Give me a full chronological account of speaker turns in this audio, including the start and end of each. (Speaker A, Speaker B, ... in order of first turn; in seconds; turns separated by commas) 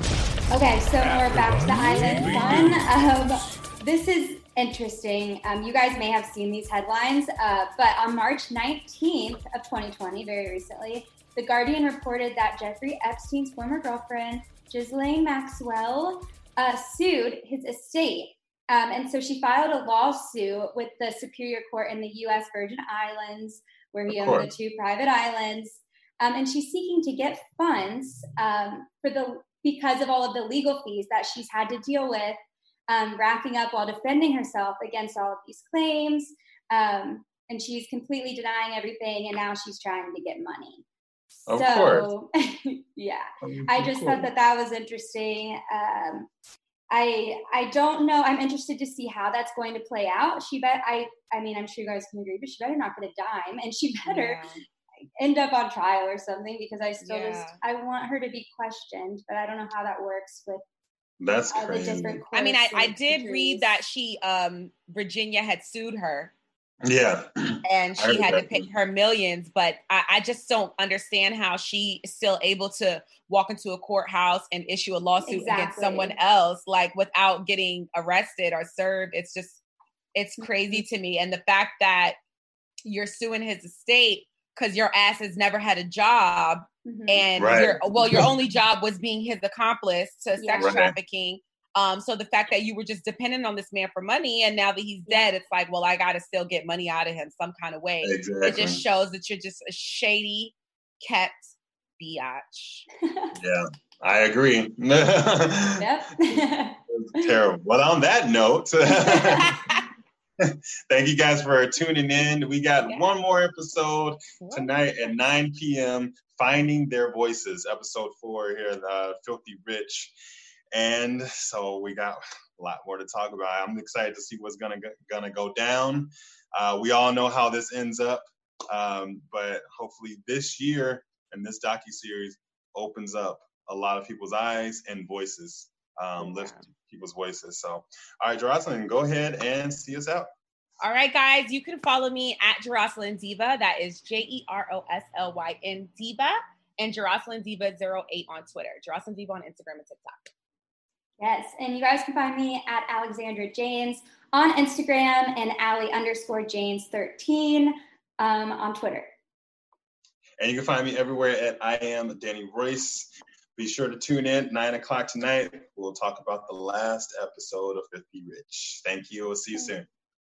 Speaker A: 0.5-40.8, Speaker B: 1.8-2.8, Speaker B: 24.1-24.5, Speaker A: 41.5-46.3, Speaker B: 41.5-42.1, Speaker B: 43.4-44.3, Speaker A: 46.9-54.4, Speaker C: 54.0-54.6, Speaker A: 55.2-60.6, Speaker C: 57.0-57.6, Speaker B: 61.2-62.2, Speaker A: 61.5-63.8, Speaker C: 62.3-66.3, Speaker B: 66.8-68.7, Speaker C: 67.6-79.6, Speaker A: 75.2-76.1, Speaker C: 80.1-82.2, Speaker A: 80.4-80.8, Speaker C: 82.8-102.9, Speaker A: 86.8-87.7, Speaker B: 87.3-88.3, Speaker A: 90.4-90.8, Speaker B: 90.6-90.9, Speaker B: 98.0-98.8, Speaker A: 103.0-103.3, Speaker B: 103.3-109.5, Speaker A: 105.8-107.3, Speaker A: 109.0-109.4, Speaker C: 109.4-109.8, Speaker B: 110.4-120.1, Speaker C: 114.4-114.7, Speaker B: 120.7-140.3, Speaker C: 136.2-136.5, Speaker C: 140.8-150.3, Speaker A: 151.2-159.1, Speaker B: 160.4-169.8